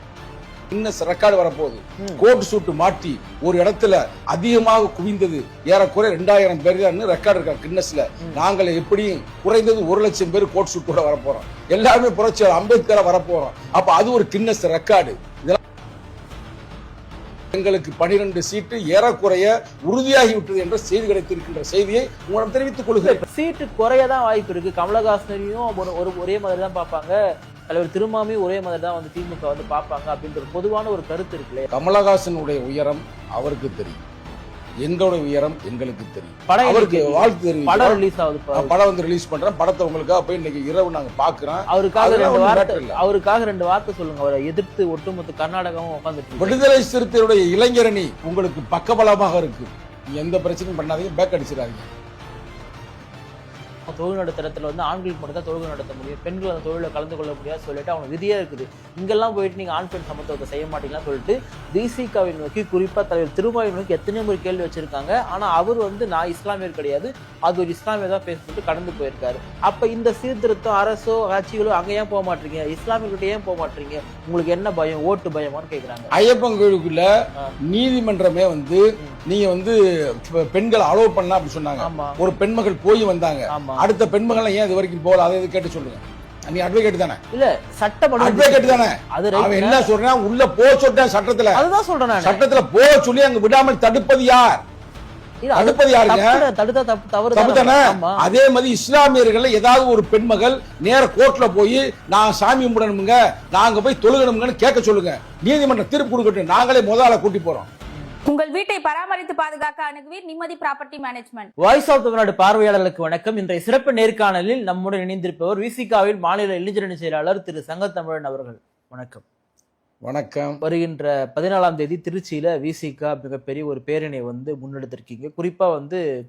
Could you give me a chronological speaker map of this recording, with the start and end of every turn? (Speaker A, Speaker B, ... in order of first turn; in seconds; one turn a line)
Speaker A: 0.7-15.6
Speaker A: 17.5-23.2
Speaker B: 23.0-27.1
Speaker B: 27.7-31.7
Speaker A: 31.7-34.0
Speaker A: 34.8-38.0
Speaker B: 36.5-38.7
Speaker A: 38.5-43.0
Speaker B: 41.7-46.6
Speaker A: 46.4-51.9
Speaker B: 53.9-76.1
Speaker A: 76.1-77.1
Speaker A: 77.7-87.2
Speaker B: 81.8-82.2
Speaker B: 83.5-83.8
Speaker B: 87.3-89.9
Speaker A: 88.2-91.6
Speaker B: 91.5-92.4
Speaker A: 92.2-94.6
Speaker B: 95.4-98.3
Speaker A: 95.5-96.4
Speaker A: 97.3-107.7
Speaker C: 108.2-111.5
Speaker B: 111.6-119.2
Speaker A: 120.0-120.6
Speaker B: 120.6-126.0